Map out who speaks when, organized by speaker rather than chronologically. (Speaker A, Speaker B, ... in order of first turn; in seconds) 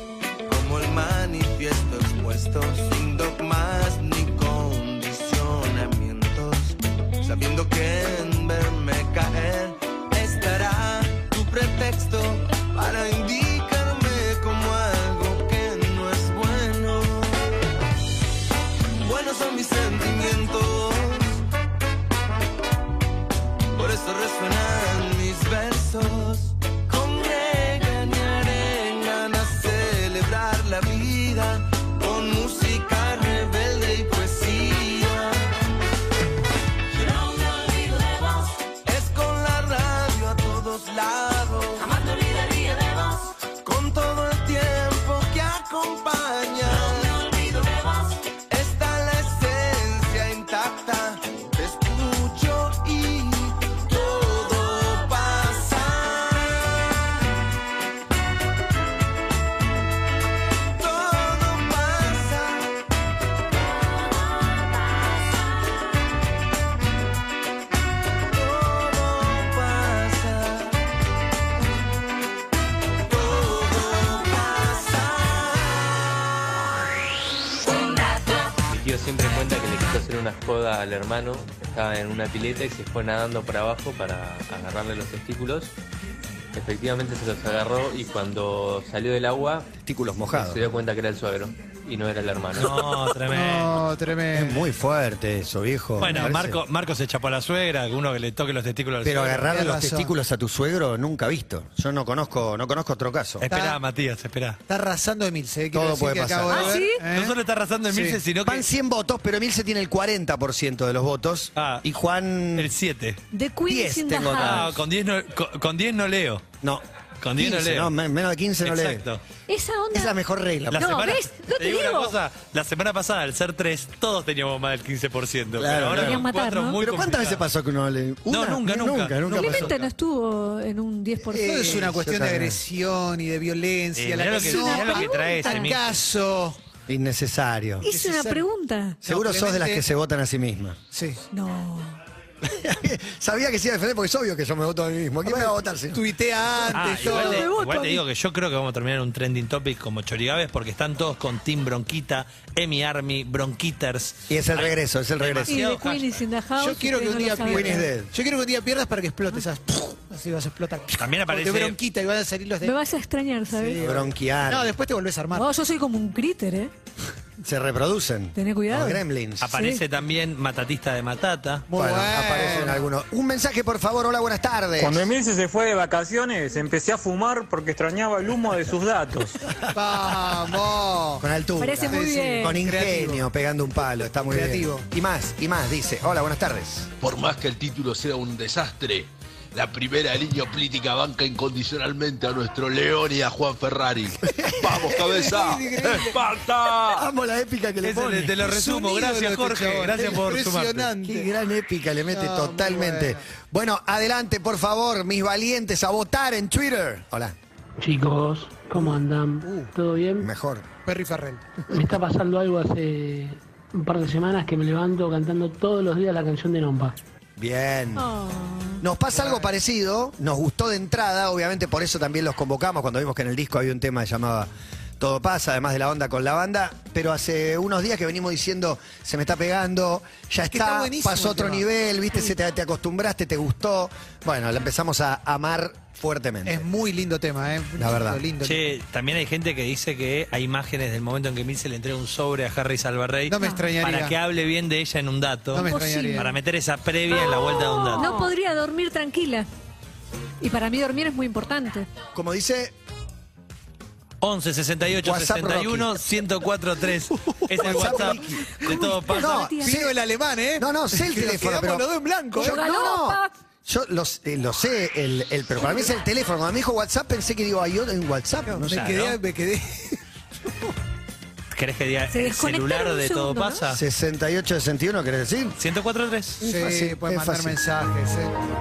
Speaker A: 0.5-17.5, 19.0-21.4, 23.7-35.5, 37.1-47.9, 48.5-57.2, 60.8-62.7, 68.3-70.8, 73.1-76.2
Speaker B: 78.7-85.7, 86.5-89.7, 90.3-92.8
Speaker C: 89.8-90.6, 94.3-96.6, 99.0-103.7, 105.7-106.8, 108.5-112.7, 113.7-114.8, 117.3-119.0, 119.9-120.9, 125.6-126.3, 126.8-129.8, 131.2-132.6, 136.9-137.9, 139.0-140.8, 142.4-146.0, 154.3-155.6, 157.4-158.1, 163.8-164.7, 167.4-169.5, 171.7-175.1, 181.2-186.9, 194.2-195.3, 196.9-198.5, 201.0-207.4, 210.2-210.7, 217.4-218.1, 218.8-236.7, 237.8-238.2, 252.1-252.7, 254.9-256.0, 257.5-260.0, 260.6-269.0, 273.7-275.6, 276.4-277.6
Speaker D: 92.5-93.8, 96.0-99.5, 103.4-104.6, 107.1-108.7, 111.6-111.8, 112.6-113.2, 114.3-116.5, 117.2-117.9, 118.6-119.2, 120.7-127.4, 128.3-129.9, 134.0-135.9, 146.7-156.2, 161.0-161.8, 169.4-171.7, 197.8-200.9, 238.4-248.1, 254.2-259.4, 268.7-269.2, 271.5-273.8, 275.6-276.4
Speaker E: 93.2-94.7, 99.4-100.1, 104.7-107.4, 107.9-108.2, 131.4-136.6, 137.8-138.5, 139.1-139.8, 140.9-141.2, 145.2-147.5, 156.6-162.8, 163.5-165.5, 171.7-172.9, 179.7-181.2, 181.9-183.2, 184.3-184.8, 194.9-196.2, 198.4-201.3, 202.1-203.2, 208.8-209.7, 210.9-211.7, 219.1-219.5, 230.5-231.7, 236.5-238.6, 243.3-244.2, 245.5-246.3, 257.6-258.1, 259.6-262.8, 268.5-270.0, 276.4-278.3
Speaker F: 106.5-107.0, 113.3-114.7, 119.5-120.2, 120.7-122.1, 125.9-126.8, 129.3-131.9, 134.4-135.7, 137.8-139.0, 141.3-142.0, 147.0-148.0, 155.5-157.9, 162.6-163.8, 165.3-166.7, 168.3-169.8, 181.6-182.6, 218.0-218.8, 243.4-243.7, 245.6-246.3, 247.4-249.5, 250.4-251.9, 258.4-259.7, 262.4-263.3, 272.1-273.6
Speaker G: 175.2-179.3
Speaker H: 187.0-197.1
Speaker I: 207.8-210.3, 211.7-216.9